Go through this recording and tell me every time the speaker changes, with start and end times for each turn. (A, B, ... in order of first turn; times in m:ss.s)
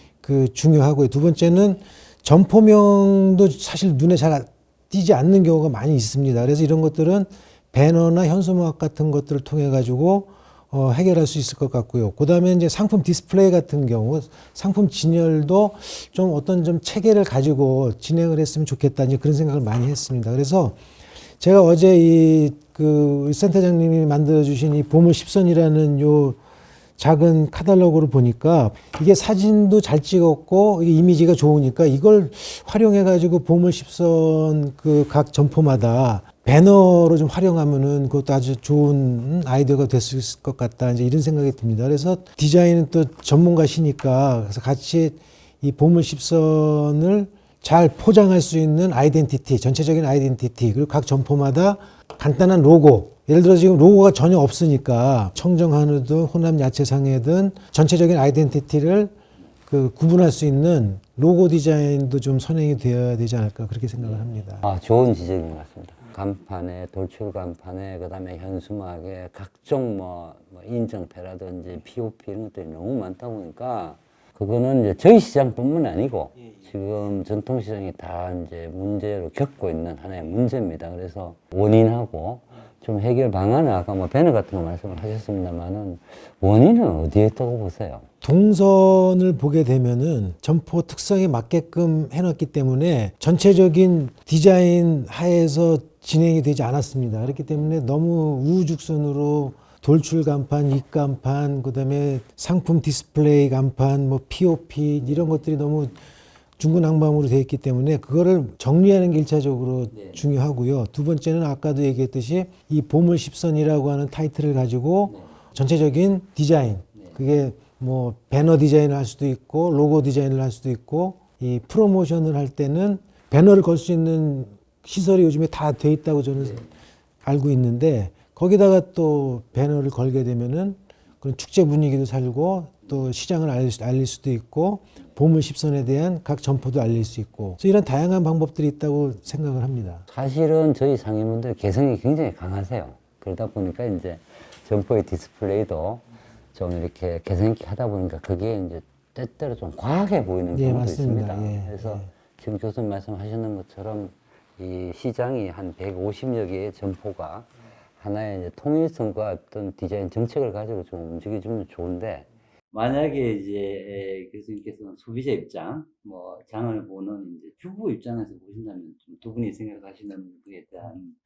0:00.2-0:20.8 A
0:21.4-0:26.4 A
0:27.0-0:59.1 A
0:59.7-1:04.6 A
1:04.0-1:28.1 B
1:28.2-1:46.0 A
1:45.2-1:45.4 B
1:46.6-2:06.6 A
1:49.9-1:50.3 B
2:06.4-2:06.7 B
2:07.2-2:20.0 A
2:20.1-2:51.2 B
2:30.5-2:32.1 A